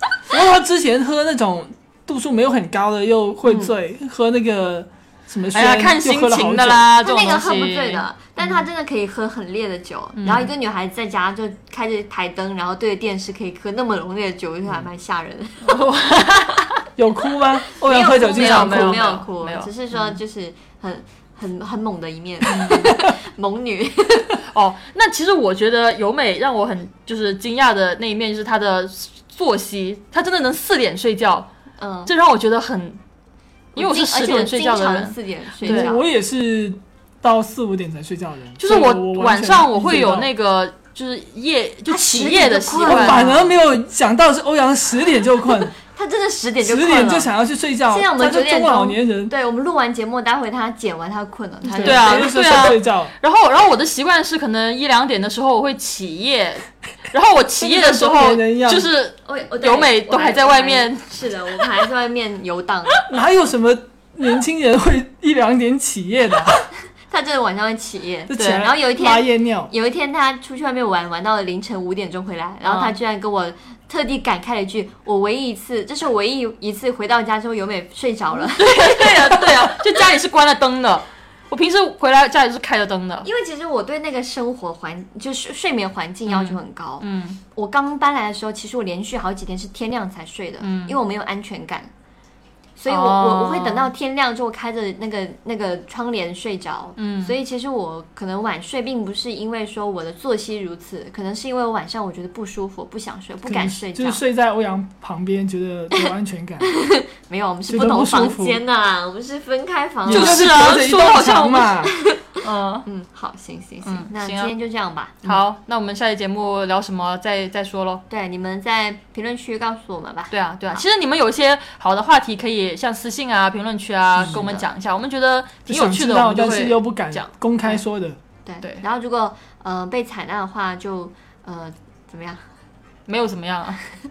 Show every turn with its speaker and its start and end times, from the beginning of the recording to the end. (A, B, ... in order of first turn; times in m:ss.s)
0:00.3-0:06.9 A
0:05.5-0:08.6 B
0:07.0-0:15.8 C
0:10.2-0:10.5 B
0:15.6-0:16.7 B
0:17.0-0:19.1 A
0:17.8-0:24.4 C
0:18.1-0:20.2 B
0:22.4-0:22.9 B
0:24.5-0:31.5 B
0:31.8-0:32.1 C
0:32.0-0:33.0 B
0:33.8-0:35.9 B
0:33.8-0:36.0 C
0:35.6-0:40.3 A
0:38.6-0:43.4 B
0:41.8-0:43.5 C
0:42.8-0:45.7 A
0:45.8-0:47.3 C
0:46.6-0:49.3 A
0:47.9-0:52.4 C
0:51.7-0:53.1 A
0:51.8-1:01.1 B
0:57.6-0:58.9 A
0:59.2-1:03.0 C
1:03.0-1:06.6 A
1:07.1-1:19.1 C
1:08.3-1:09.7 A
1:08.3-1:08.7 B
1:12.6-1:12.9 B
1:18.3-1:23.3 B
1:23.2-1:31.9 C
1:26.3-1:27.4 B
1:30.6-1:31.0 B
1:32.8-1:44.2 C
1:32.9-1:33.9 B
1:37.0-1:37.3 B
1:43.4-1:46.7 A
1:46.6-1:50.5 C
1:47.7-1:48.6 A
1:50.0-1:51.9 A
1:50.1-1:51.7 B
1:51.8-1:52.3 C
1:52.4-1:52.8 B
1:52.8-1:55.4 C
1:53.8-1:54.5 B
1:55.2-1:58.0 B
1:58.1-2:00.8 C
2:00.3-2:07.3 B
2:04.2-2:04.7 C
2:05.7-2:08.2 A
2:08.4-2:12.4 C
2:13.1-2:13.8 B